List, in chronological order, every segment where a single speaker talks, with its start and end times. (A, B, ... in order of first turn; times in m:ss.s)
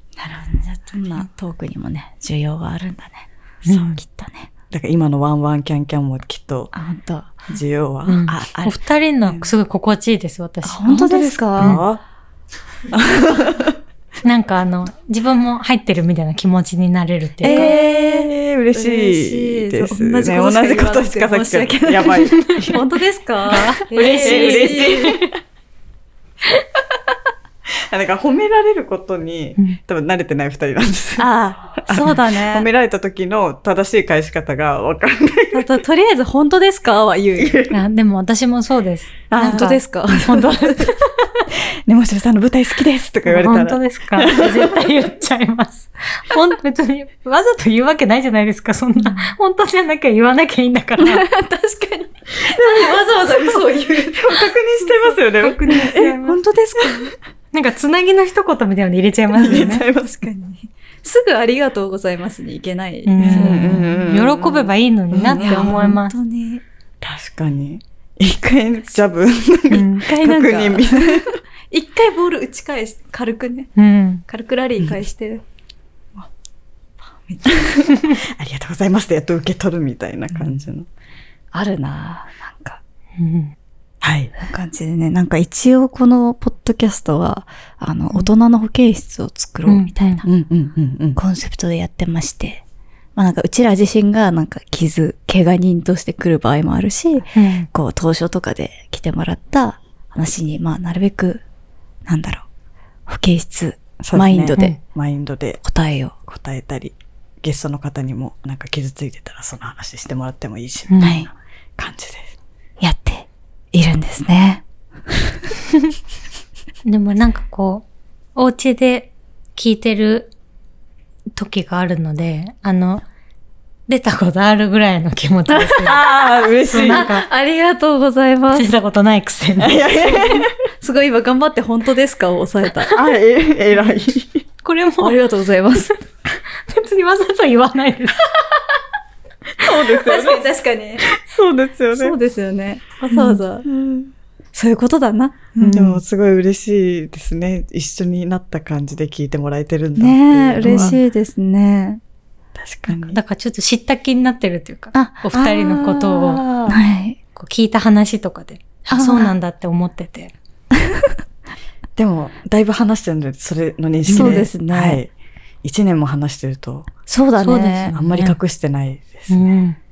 0:00.2-0:04.5 A
0:03.7-0:04.0 B
0:04.7-0:06.7 C
0:06.7-0:07.5 A
0:07.5-0:08.3 C
0:08.0-0:11.8 B
0:08.3-0:09.4 A
0:10.6-0:11.8 A
0:10.9-0:12.0 C
0:12.9-0:13.8 C
0:14.2-0:17.7 B
0:17.4-0:25.2 A
0:17.4-0:22.8 C
0:22.4-0:22.7 B
0:23.5-0:25.2 B
0:24.0-0:25.4 C
0:27.9-0:35.7 C
0:31.2-0:32.7 A
0:35.5-0:37.6 A
0:37.4-0:37.8 C
0:37.7-0:41.0 B
0:39.3-0:39.7 C
0:39.4-0:40.9 A
0:41.5-0:44.9 C
0:43.2-0:51.3 B
0:51.0-0:57.1 A
0:52.4-0:56.3 C
0:55.4-0:56.4 B
0:57.5-0:59.8 B
0:59.3-1:00.2 C
0:59.5-1:03.8 A
1:03.0-1:06.1 B
1:03.2-1:05.8 C
1:05.3-1:06.6 A
1:07.0-1:11.3 C
1:09.7-1:10.0 B
1:09.9-1:13.7 A
1:13.8-1:14.2 B
1:14.3-1:15.4 A
1:17.2-1:17.7 A
1:17.4-1:20.9 C
1:21.5-1:22.8 A
1:23.2-1:23.5 B
1:24.0-1:24.3 C
1:24.4-1:30.2 A
1:29.6-1:30.2 B
1:30.2-1:31.2 C
1:31.2-1:32.6 A
1:33.2-1:41.4 A
1:37.3-1:37.7 B
1:42.0-1:42.4 A
1:43.1-1:44.8 A
1:44.0-1:45.6 C
1:45.6-1:46.2 A
1:46.2-1:52.3 C
1:50.9-1:51.2 B
1:51.0-1:51.3 A
1:52.8-1:55.1 A
1:56.8-2:00.3 B
2:01.3-2:03.0 B
2:03.9-2:06.0 B
2:05.5-2:05.9 A
2:05.8-2:07.1 C
2:06.7-2:07.2 B
2:06.8-2:08.7 A
2:08.5-2:09.8 B
2:09.6-2:10.5 C
2:10.0-2:12.9 A
2:12.9-2:14.4 C
2:14.6-2:15.2 B
2:15.0-2:15.9 A
2:16.7-2:18.2 B
2:19.6-2:20.4 C
2:19.6-2:21.1 A
2:21.1-2:22.2 C
2:21.9-2:23.7 A
2:23.6-2:24.1 C
2:24.5-2:26.0 A
2:25.6-2:31.0 C
2:30.0-2:32.0 A
2:30.6-2:31.0 B
2:32.6-2:33.2 C
2:33.0-2:36.4 B
2:34.9-2:35.3 A
2:35.3-2:36.8 C
2:36.7-2:37.2 A
2:37.4-2:40.3 B
2:38.9-2:39.3 A
2:40.8-2:41.1 A
2:42.0-2:45.1 C
2:44.1-2:45.0 A
2:44.1-2:44.4 B
2:45.6-2:46.9 C
2:47.1-2:48.0 A
2:47.4-2:48.4 B
2:47.9-2:49.4 C
2:49.3-2:49.8 B